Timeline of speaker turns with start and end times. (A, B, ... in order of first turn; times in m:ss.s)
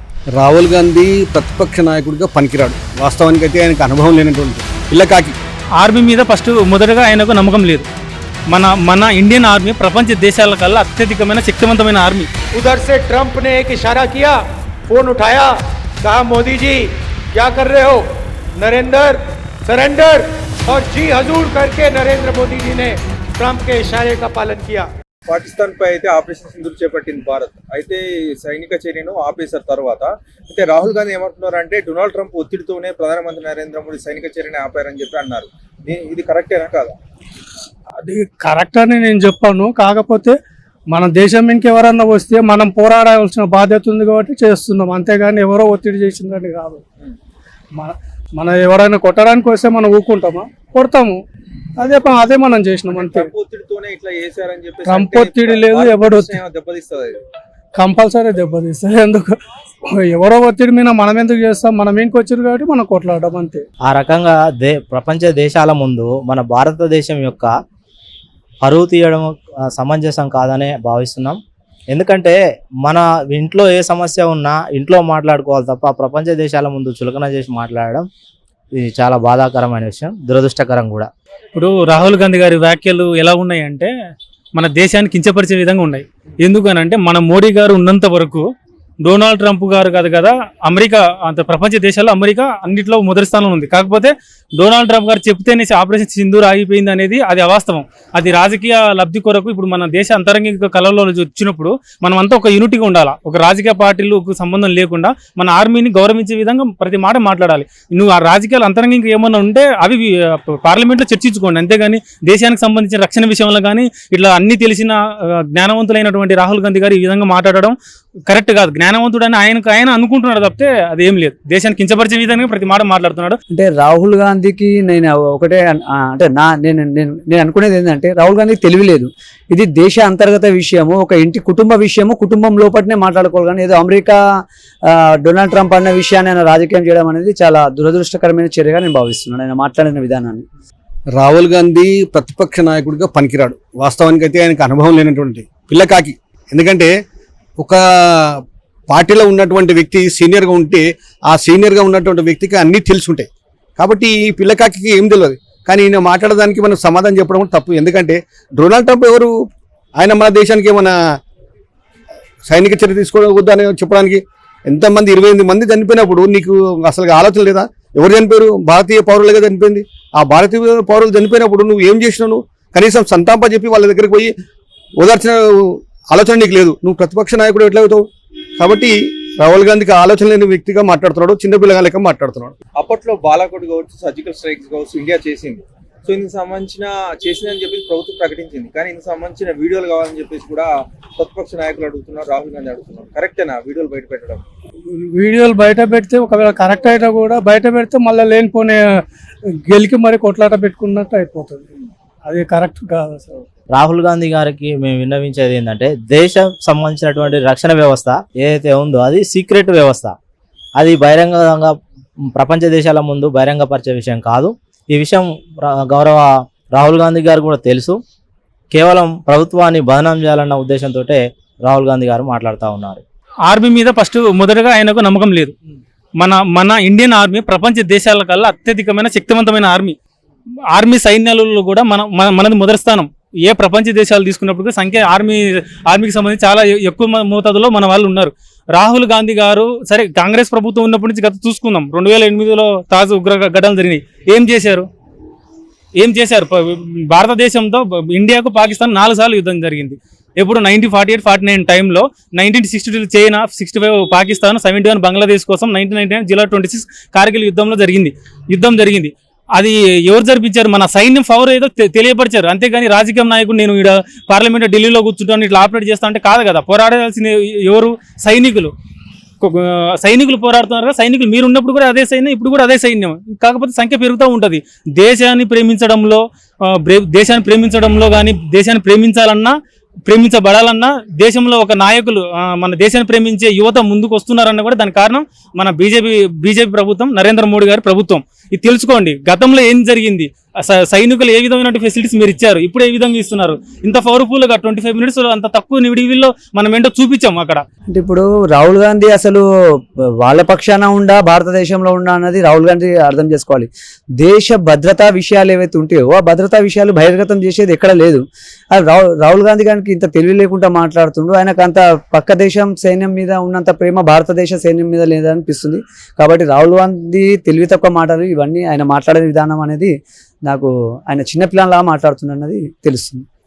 0:00.4-0:05.4 A
0:05.8-0:07.9 B
0:08.5-0:12.3 B
0:12.5-0:24.9 C
0:25.3-0:37.0 D
0:38.0-0:40.4 E
0:40.9-0:46.8 E
0:47.8-0:51.2 E
0:51.8-0:53.3 E
0:52.9-0:57.2 D
0:54.9-0:56.3 E
0:57.8-0:59.4 E
0:59.9-1:03.6 E
1:03.9-1:07.5 F
1:08.6-1:18.1 F
1:18.7-1:21.1 F
1:21.5-1:23.9 B
1:24.6-1:28.5 B
1:29.0-1:55.0 B
1:55.5-1:57.8 B
1:58.3-2:03.4 B
2:03.5-2:14.2 G
2:14.9-2:20.4 G
2:21.2-2:26.9 A
2:28.9-2:39.3 A
2:40.0-2:40.9 A
2:42.5-2:54.3 A
2:55.0-2:58.0 A
2:58.6-3:02.5 A
3:02.8-3:14.4 D
3:14.9-3:18.8 E
3:19.7-3:21.7 E
3:22.3-3:23.4 E
3:23.7-3:30.2 F
3:30.8-3:38.0 F
3:38.7-3:43.0 F
3:43.5-3:45.5 B
3:46.2-3:50.0 B
3:50.7-4:04.9 B
4:06.0-4:28.7 B
4:29.4-4:39.5 B
4:40.1-4:57.6 B
4:57.9-4:59.4 G
5:00.2-5:08.2 G
5:08.7-5:19.9 G
5:20.5-5:23.2 G